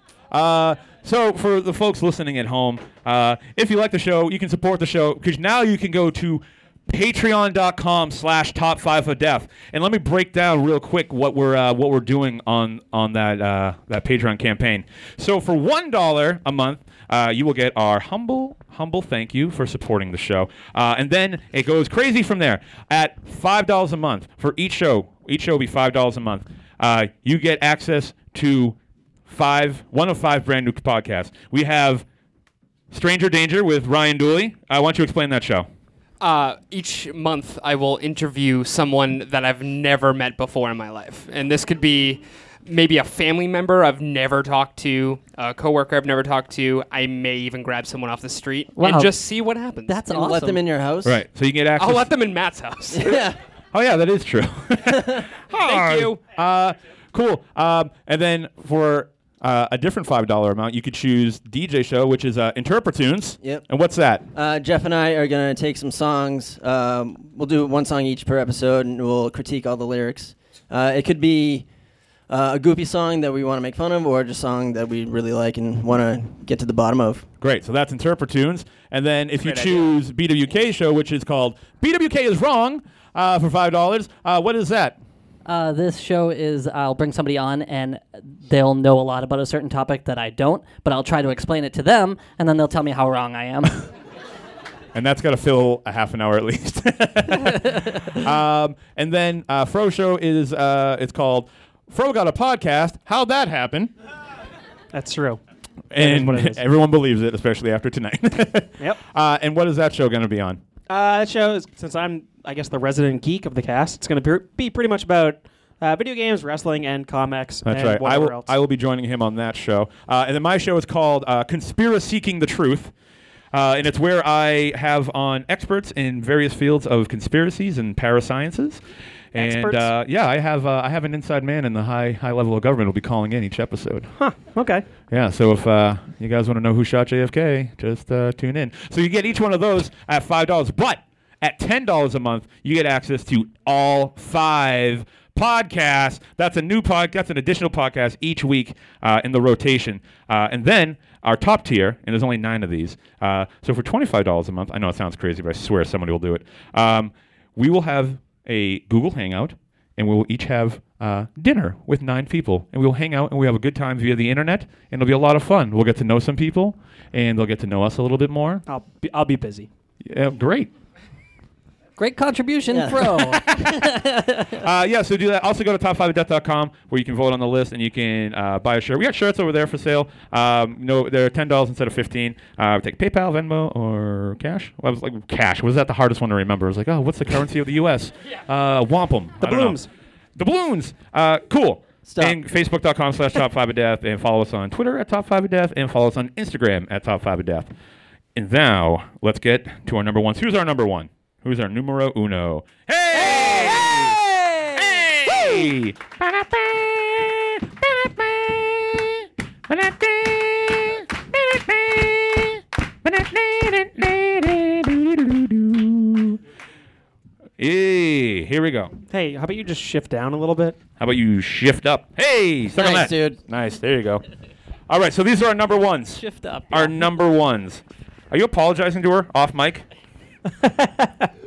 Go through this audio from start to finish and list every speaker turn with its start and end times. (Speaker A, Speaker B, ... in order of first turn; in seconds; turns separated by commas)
Speaker A: 0.3-28.8, Speaker A: 29.3-32.0, Speaker A: 32.9-35.7, Speaker B: 36.2-50.0, Speaker C: 48.8-49.1, Speaker C: 49.9-50.6, Speaker D: 50.1-51.2, Speaker A: 51.0-52.1, Speaker B: 51.8-53.3, Speaker D: 52.9-53.4, Speaker A: 53.7-64.2, Speaker D: 54.9-55.2, Speaker B: 55.5-56.2, Speaker D: 64.3-71.7, Speaker D: 72.3-77.2, Speaker A: 77.4-85.0, Speaker E: 79.4-79.8, Speaker C: 85.4-93.8, Speaker A: 94.9-103.9, Speaker E: 104.9-105.4, Speaker A: 105.9-110.6, Speaker E: 106.0-106.6, Speaker E: 110.9-118.5, Speaker A: 117.6-122.9, Speaker A: 123.5-128.8, Speaker A: 129.3-134.1, Speaker E: 129.3-129.9, Speaker E: 134.2-134.8, Speaker A: 135.1-168.6, Speaker E: 168.7-169.7, Speaker A: 170.0-170.7, Speaker C: 172.0-174.6, Speaker D: 172.7-173.5, Speaker A: 174.6-189.8, Speaker E: 189.4-189.9, Speaker A: 190.3-197.7, Speaker D: 192.1-192.3, Speaker A: 198.3-204.2, Speaker C: 203.1-205.6, Speaker A: 204.7-216.4, Speaker A: 217.6-218.9, Speaker E: 219.1-220.8, Speaker A: 221.0-224.2, Speaker D: 222.7-223.4, Speaker A: 224.9-229.8, Speaker C: 226.2-227.0